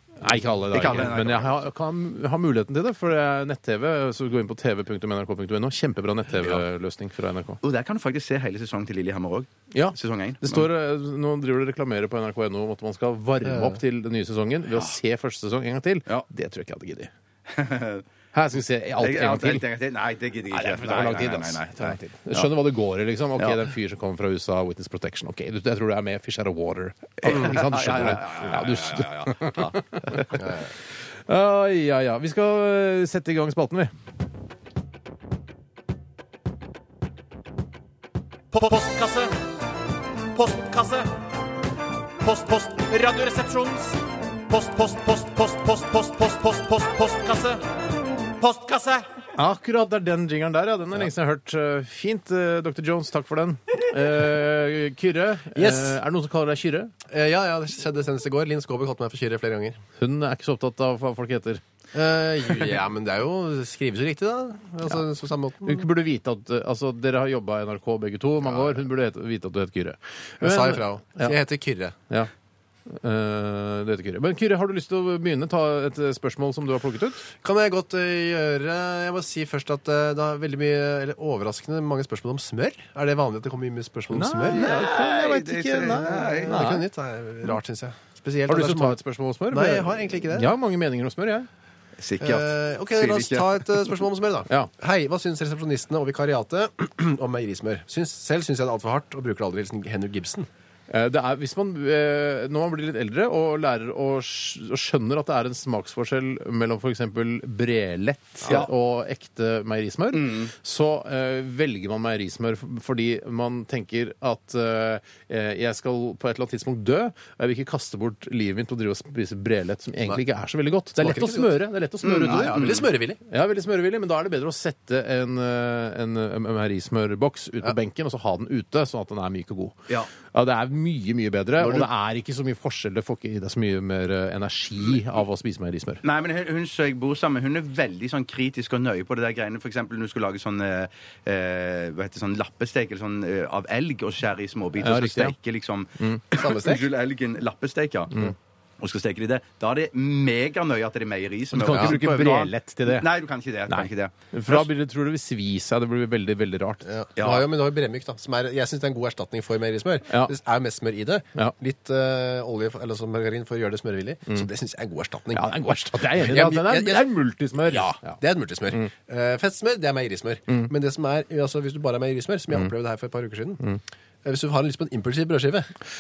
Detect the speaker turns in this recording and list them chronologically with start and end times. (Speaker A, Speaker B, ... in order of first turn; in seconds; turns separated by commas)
Speaker A: 0.2-7.6, Speaker B: 0.7-1.6, Speaker B: 7.6-10.7, Speaker A: 9.7-17.1, Speaker C: 13.4-13.8, Speaker B: 17.5-18.0, Speaker A: 18.3-19.6, Speaker B: 19.0-22.5, Speaker A: 20.5-30.6, Speaker B: 23.4-23.6, Speaker B: 27.2-30.4, Speaker A: 31.3-33.9, Speaker D: 38.5-39.4, Speaker D: 40.3-41.1, Speaker D: 42.2-47.6, Speaker D: 48.4-49.0, Speaker A: 49.4-56.9, Speaker C: 55.5-56.0, Speaker C: 57.1-59.8, Speaker A: 60.0-61.6, Speaker C: 61.9-65.9, Speaker A: 65.6-71.3, Speaker C: 70.4-72.0, Speaker A: 72.9-77.3, Speaker C: 77.4-84.8, Speaker A: 84.1-86.8, Speaker B: 84.5-86.7, Speaker C: 85.9-89.0, Speaker A: 88.5-91.5, Speaker C: 89.5-90.5, Speaker B: 92.0-93.9, Speaker C: 92.2-100.5, Speaker A: 100.9-122.6, Speaker B: 110.1-110.5, Speaker C: 121.0-121.6, Speaker B: 122.0-122.9, Speaker C: 122.2-123.2, Speaker A: 123.3-136.0, Speaker C: 131.6-131.9, Speaker B: 136.0-148.1, Speaker A: 144.8-145.3, Speaker C: 146.3-146.9, Speaker B: 148.8-154.7, Speaker A: 151.5-153.1, Speaker C: 151.7-152.0, Speaker A: 153.7-156.8, Speaker C: 156.8-165.5, Speaker B: 157.2-157.5, Speaker A: 165.3-168.2, Speaker C: 166.1-167.1, Speaker C: 167.6-173.6, Speaker C: 174.2-175.7